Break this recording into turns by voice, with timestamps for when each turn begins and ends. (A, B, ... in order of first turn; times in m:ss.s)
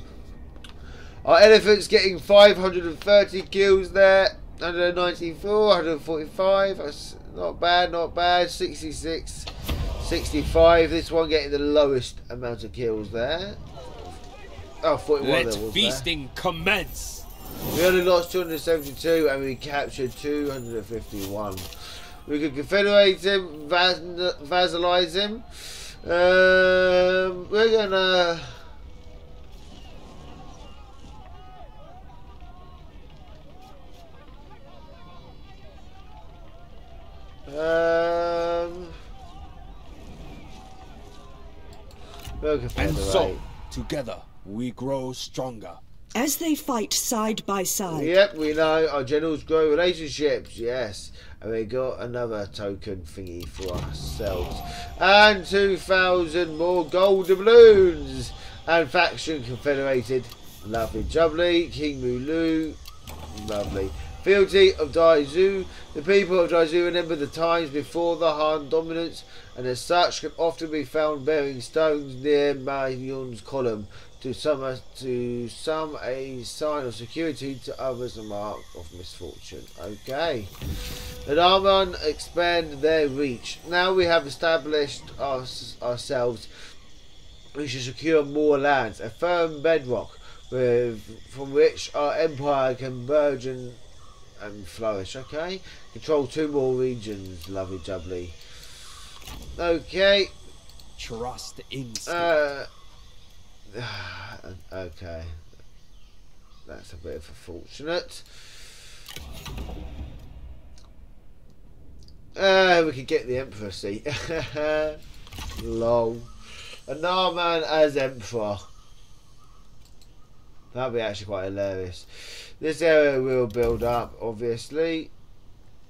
0:01.2-0:09.5 A
0:10.0-0:13.6 A
0:14.8-0:16.1 A
0:15.2-0:17.3 B
0:17.7-0:21.7 A
0:22.2-0:28.6 A
0:37.5-0:39.0 A
0:42.4-0:43.4 A
0:42.8-0:45.8 B
0:46.1-0:48.1 C
0:47.9-1:02.8 A
1:03.3-1:20.5 A
1:21.2-1:26.5 A
1:27.6-1:33.8 A
1:34.4-1:38.4 A
1:39.6-1:40.3 A
1:41.0-1:42.3 B
1:42.1-1:42.7 A
1:43.7-1:45.4 A
1:46.7-1:48.5 A
1:52.4-1:55.0 A
1:55.6-1:56.3 A
1:56.9-1:58.6 A
2:00.7-2:05.1 A